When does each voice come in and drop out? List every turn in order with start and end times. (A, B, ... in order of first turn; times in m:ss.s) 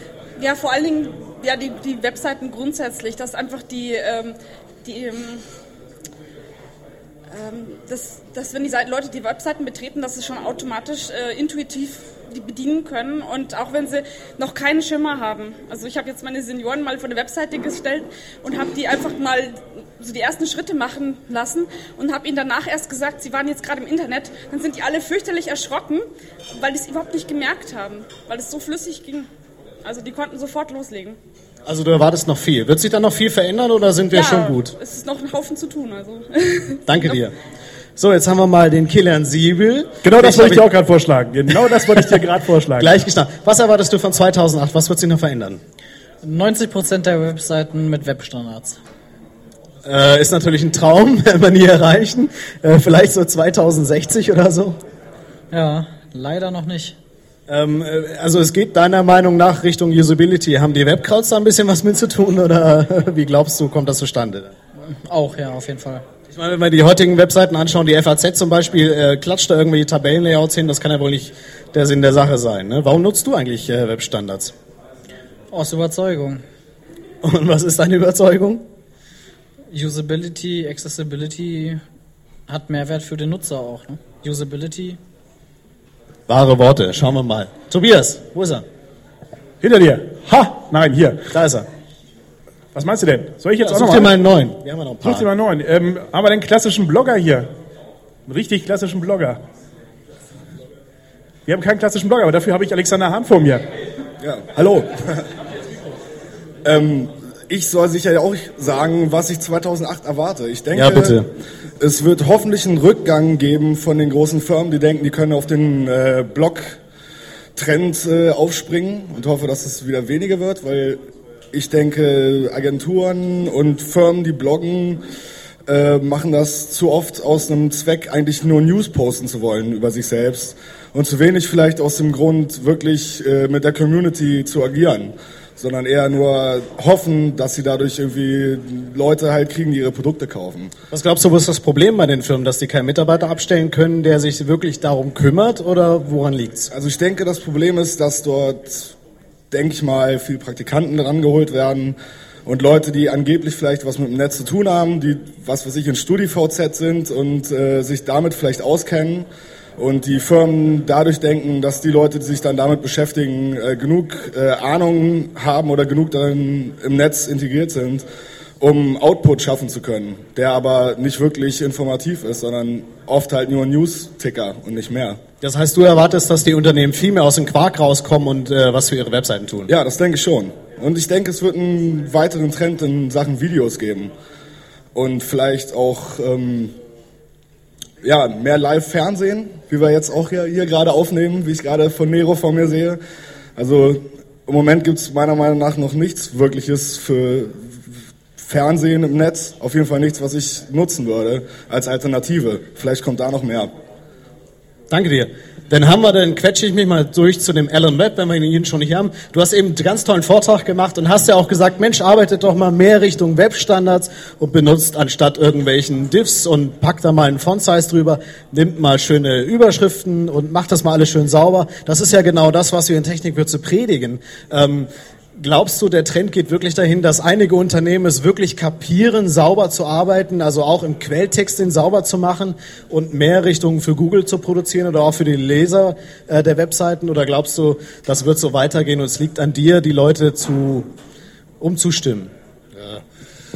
0:00.4-0:05.4 A
0:07.3-0:29.3 A
0:29.8-0:31.2 A
0:31.7-0:34.7 B
0:34.1-0:37.2 A
0:36.9-0:37.3 B
0:38.0-0:40.7 B
0:40.0-0:42.9 C
0:41.5-0:45.6 B
0:46.2-0:48.8 D
0:49.8-0:54.8 B
0:55.5-0:57.0 D
0:57.5-1:04.5 B
1:04.8-1:06.0 D
1:06.3-1:14.5 B
1:15.5-1:16.4 D
1:17.2-1:18.6 B
1:19.7-1:21.8 D
1:22.5-1:25.0 D
1:26.3-1:28.6 B
1:29.6-1:31.3 C
1:31.3-1:31.7 B
1:32.7-1:34.1 C
1:33.6-1:35.3 B
1:35.0-1:37.5 C
1:38.3-1:39.4 C
1:41.5-1:43.6 C
1:44.2-1:45.3 E
1:46.6-1:51.3 E
1:50.7-1:51.3 B
1:51.8-1:56.8 E
1:57.6-2:01.0 E
2:01.5-2:05.0 E
2:05.7-2:20.7 E
2:20.9-2:26.7 B
2:26.7-2:28.9 E
2:29.5-2:39.3 E
2:39.8-2:48.0 E
2:48.6-2:55.2 E
2:55.4-2:59.7 B
2:59.7-3:04.1 E
3:04.9-3:06.7 E
3:08.0-3:13.0 E
3:13.6-3:17.8 E
3:18.4-3:23.7 E
3:24.9-4:00.9 B
4:01.6-4:02.3 B